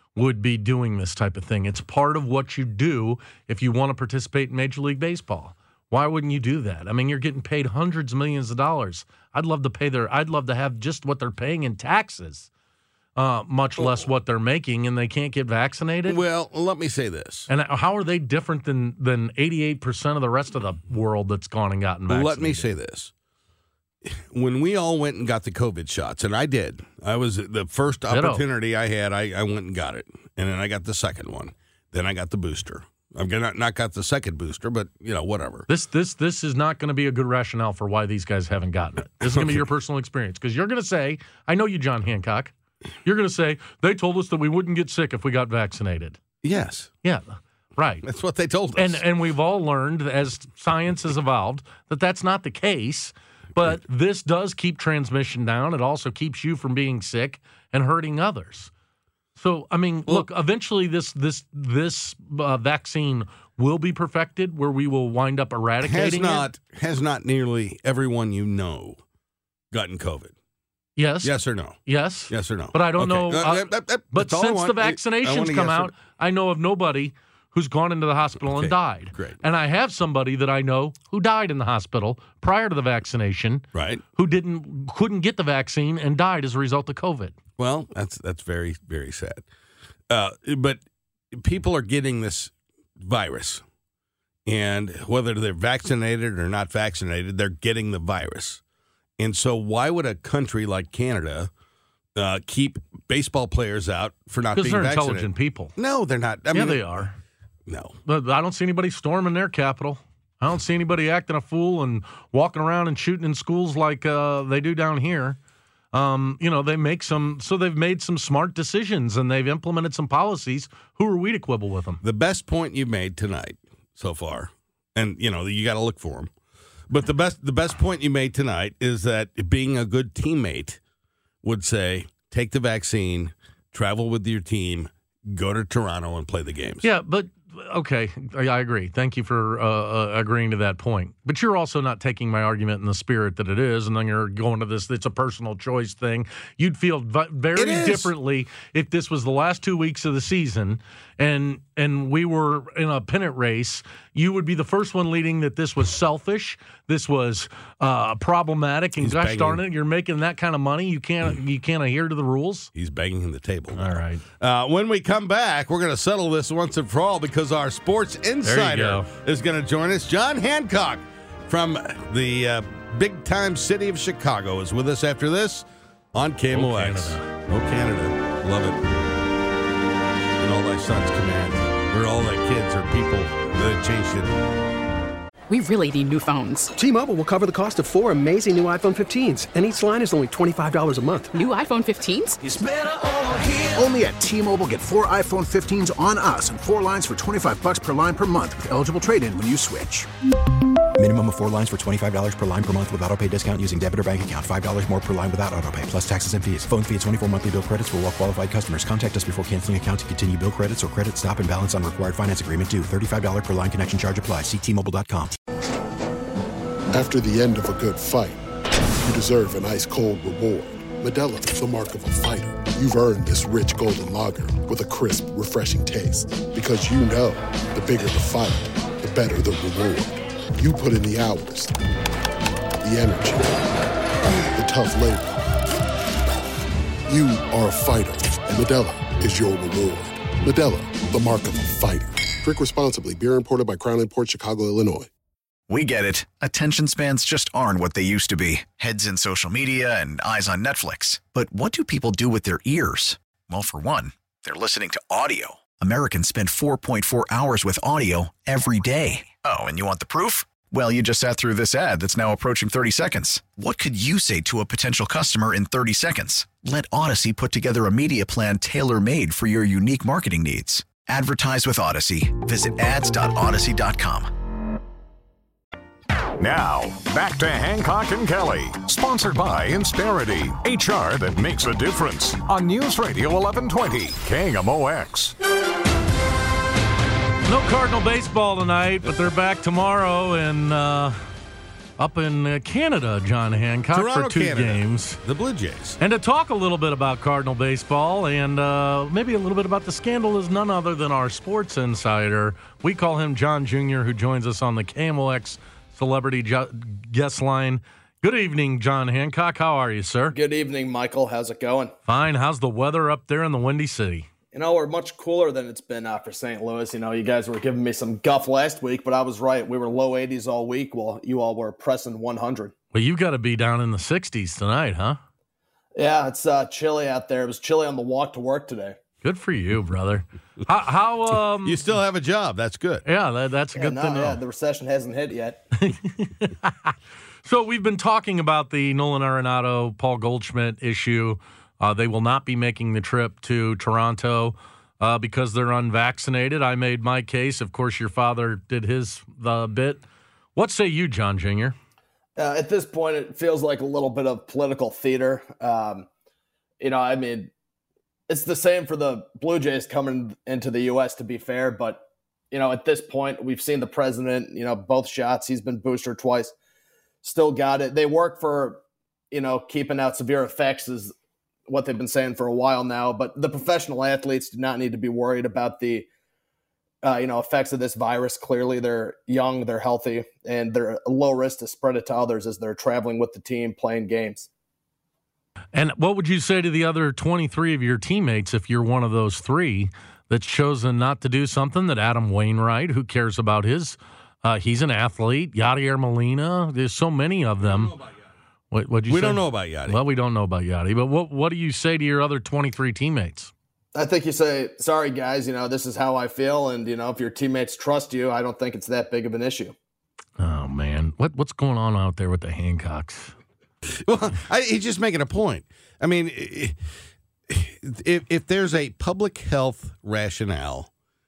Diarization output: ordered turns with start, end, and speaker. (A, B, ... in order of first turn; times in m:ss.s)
0:00.2-0:12.5 A
0:13.2-0:16.2 A
0:16.1-0:17.5 B
0:17.5-0:22.7 A
0:22.1-0:23.1 B
0:24.0-0:35.7 B
0:28.1-0:28.4 A
0:35.7-0:42.5 A
0:39.2-0:39.6 B
0:43.0-0:46.2 A
0:46.4-0:46.9 B
0:47.0-0:48.0 A
0:48.0-0:49.0 B
0:48.8-0:58.7 A
0:59.4-1:06.5 A
1:05.8-1:09.0 B
1:09.7-1:10.3 B
1:11.0-1:11.3 A
1:11.2-1:11.8 B
1:11.9-1:27.4 A
1:12.3-1:15.9 B
1:18.4-1:19.4 B
1:23.7-1:24.0 B
1:27.6-1:29.4 B
1:30.1-1:30.8 B
1:31.3-1:33.6 B
1:34.5-1:38.6 B
1:39.2-1:41.5 B
1:42.2-1:47.0 B
1:44.6-1:45.8 A
1:46.5-1:47.2 A
1:47.7-1:48.0 B
1:48.1-1:55.4 A
1:55.9-2:02.0 A
2:02.0-2:06.3 B
2:06.9-2:10.8 B
2:11.4-2:16.8 B
2:16.8-2:42.7 A
2:27.6-2:28.1 B
2:39.0-2:39.6 B
2:42.7-2:58.8 B
2:43.7-2:44.2 A
2:48.4-2:49.1 A
2:56.5-2:57.3 A
3:00.4-3:04.4 B
3:05.5-3:06.7 C
3:06.8-3:11.3 D
3:11.3-3:12.4 C
3:13.7-3:20.1 E
3:21.0-3:35.4 F
3:36.9-3:38.4 G
3:39.0-3:51.8 G
3:52.8-3:53.6 G
3:54.6-3:55.4 G
3:57.1-4:05.1 G
4:05.7-4:34.3 H
4:36.4-4:45.4 I
4:47.5-4:51.2 A
4:52.0-4:55.2 A
4:53.9-4:56.0 B
4:56.0-5:10.4 A
5:10.3-5:11.9 J
5:12.1-5:14.3 A
5:14.5-5:22.7 J
5:22.9-5:25.2 A
5:26.0-5:29.0 J
5:29.2-5:31.8 A
5:31.6-5:33.0 B
5:33.0-5:34.4 A
5:33.8-5:35.6 J
5:35.8-5:36.9 A
5:37.4-5:50.0 A
5:50.6-5:51.8 A
5:52.4-5:56.1 J
5:56.8-5:57.5 J
5:58.3-6:06.5 J
6:07.2-6:11.1 J
6:11.7-6:16.1 J
6:17.0-6:24.5 J
6:25.7-6:37.9 A
6:37.6-6:38.1 B
6:38.7-6:43.5 A
6:39.1-6:40.0 B
6:43.9-6:49.7 J
6:50.4-6:53.3 A
6:54.0-6:56.8 B
6:57.5-7:00.9 B